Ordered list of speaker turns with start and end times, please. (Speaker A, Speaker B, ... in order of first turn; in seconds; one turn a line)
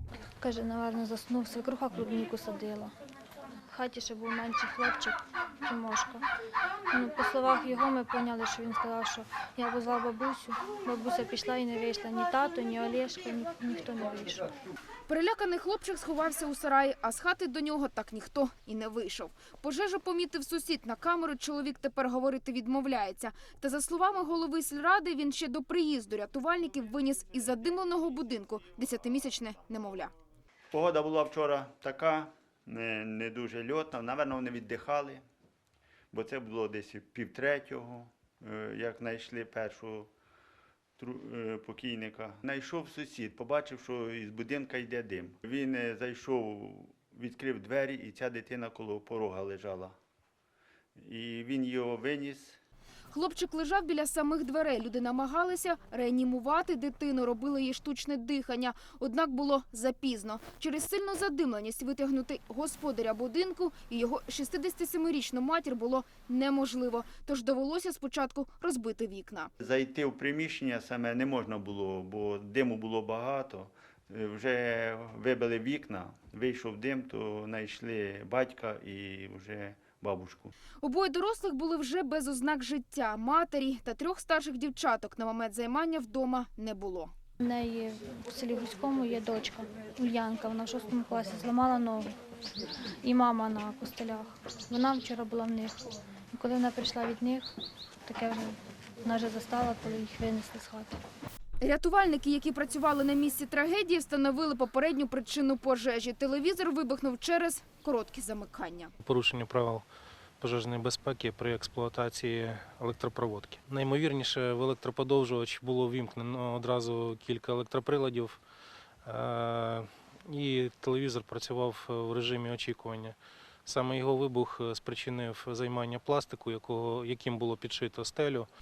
Speaker A: 0.4-2.9
Speaker A: 3.7-6.2
Speaker A: 6.9-14.5
Speaker B: 15.1-30.1
Speaker C: 30.7-35.2
Speaker C: 36.1-40.1
Speaker C: 41.0-50.0
Speaker C: 51.0-52.6
Speaker B: 53.1-69.5
Speaker C: 69.6-80.5
Speaker B: 80.8-87.1
Speaker A: 87.4-92.2
Speaker A: 93.0-97.5
Speaker A: 98.1-101.0
Speaker B: 101.6-108.9
Speaker D: 109.0-109.8
Speaker D: 110.4-118.4
Speaker D: 119.0-128.5